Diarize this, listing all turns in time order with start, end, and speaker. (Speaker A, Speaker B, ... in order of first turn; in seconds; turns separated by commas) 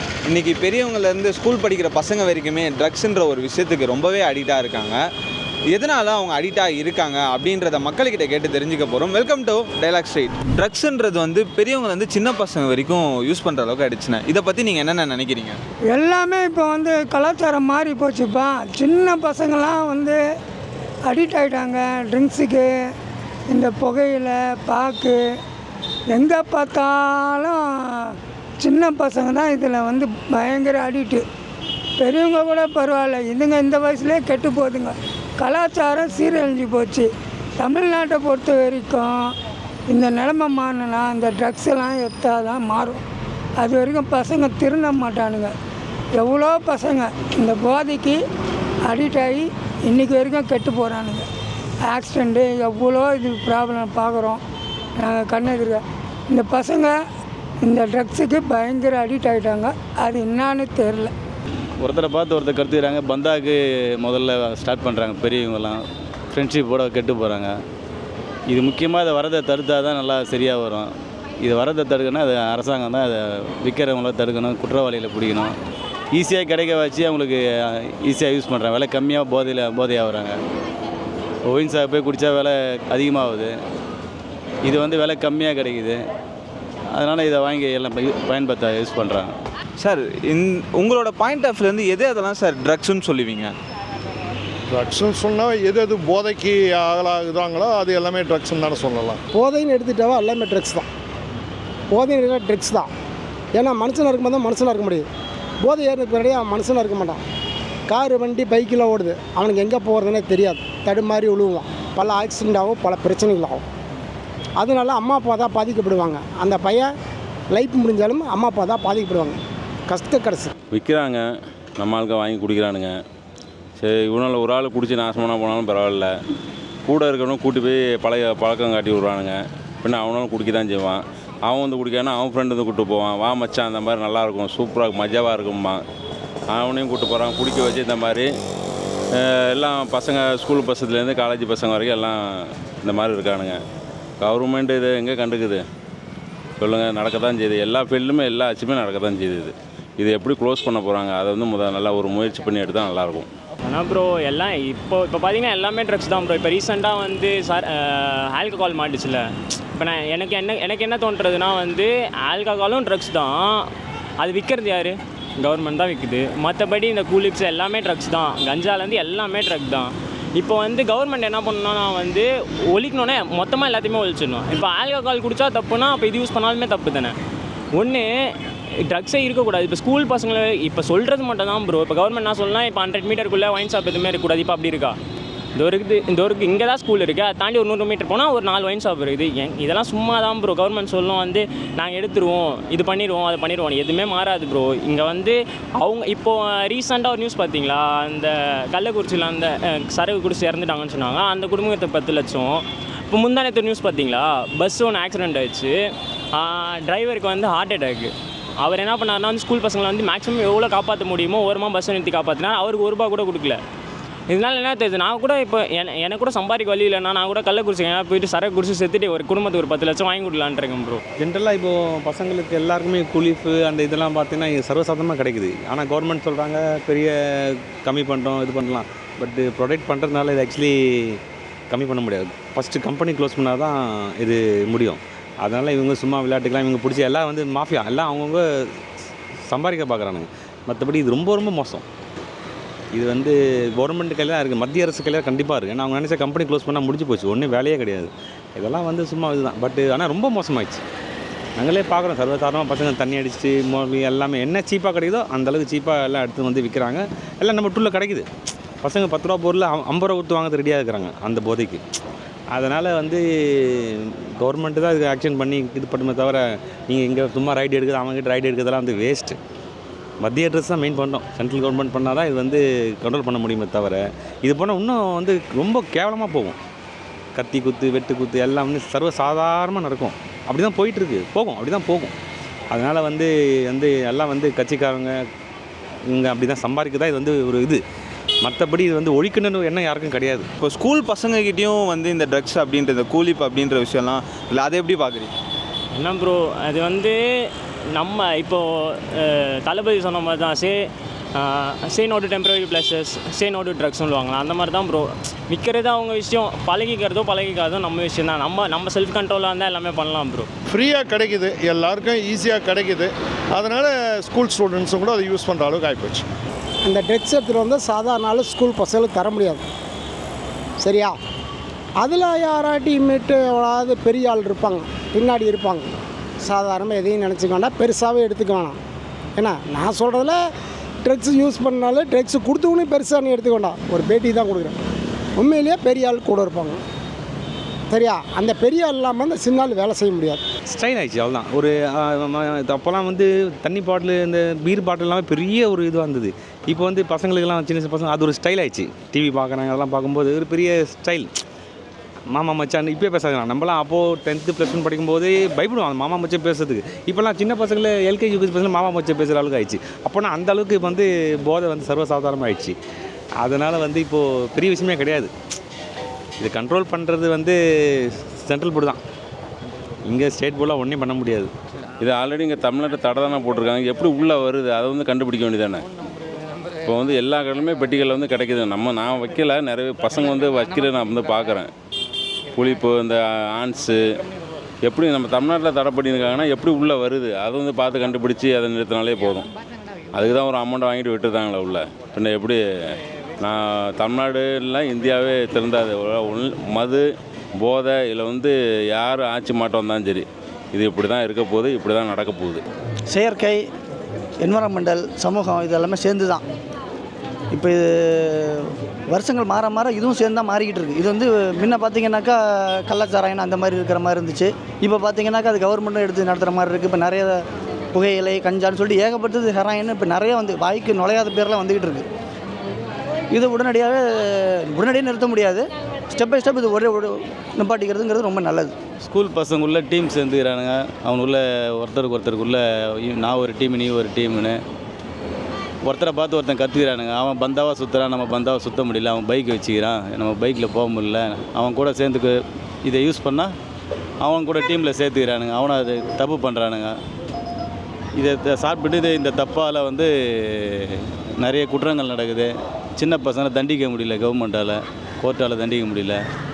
Speaker A: 0.3-5.0, Speaker A: 5.7-15.6, Speaker B: 15.9-20.2, Speaker B: 21.0-22.7, Speaker B: 23.5-25.2, Speaker B: 26.1-31.2, Speaker B: 32.0-39.3, Speaker B: 39.9-43.0, Speaker B: 43.6-45.5, Speaker B: 46.1-48.2, Speaker B: 48.8-51.2, Speaker B: 51.8-54.4, Speaker B: 55.0-57.0, Speaker B: 57.6-61.1, Speaker C: 61.8-67.5, Speaker C: 68.5-75.5, Speaker C: 76.1-80.4, Speaker C: 81.5-83.5, Speaker C: 84.6-86.0, Speaker C: 86.9-89.3, Speaker A: 89.8-93.5, Speaker D: 94.7-99.2, Speaker E: 99.3-100.8, Speaker E: 101.9-102.9, Speaker E: 103.5-105.1, Speaker E: 105.6-107.2, Speaker E: 107.9-113.6, Speaker E: 114.6-116.9, Speaker E: 117.5-120.5, Speaker F: 120.7-121.2, Speaker F: 121.8-122.9, Speaker F: 123.8-126.1, Speaker F: 126.8-135.8, Speaker F: 136.5-138.3, Speaker F: 139.2-142.2, Speaker F: 142.8-143.6, Speaker F: 144.2-145.6, Speaker F: 146.6-153.3, Speaker G: 153.7-163.7, Speaker G: 164.2-177.1, Speaker G: 177.7-178.1, Speaker G: 178.9-184.9, Speaker G: 185.6-205.7, Speaker G: 206.3-213.6, Speaker G: 214.3-221.0, Speaker H: 221.2-238.8, Speaker H: 239.4-241.8, Speaker H: 242.9-250.8, Speaker H: 251.6-258.3, Speaker H: 258.8-261.8, Speaker H: 262.5-269.4, Speaker H: 270.2-276.6, Speaker H: 277.3-282.1, Speaker H: 282.7-285.2, Speaker H: 286.1-287.8, Speaker H: 288.4-290.5, Speaker A: 290.6-295.3, Speaker G: 295.9-310.5, Speaker D: 310.7-316.2, Speaker E: 316.8-319.6, Speaker E: 320.8-321.1, Speaker E: 322.0-328.8, Speaker E: 329.4-330.4, Speaker E: 331.0-334.8, Speaker E: 335.4-336.8, Speaker E: 337.9-340.4, Speaker H: 340.7-351.3, Speaker H: 352.3-362.8, Speaker H: 363.4-365.3, Speaker H: 366.4-369.0, Speaker H: 370.1-371.5, Speaker F: 372.0-375.8, Speaker F: 376.9-381.7, Speaker F: 382.6-383.9, Speaker F: 384.8-389.5, Speaker F: 390.1-392.6, Speaker F: 393.4-397.1, Speaker F: 397.6-402.6, Speaker I: 403.1-403.7, Speaker I: 404.4-406.4, Speaker I: 407.5-417.4, Speaker I: 417.9-422.1, Speaker I: 423.3-428.7, Speaker C: 429.0-434.6, Speaker C: 435.8-443.5, Speaker C: 444.2-446.9, Speaker C: 448.1-456.2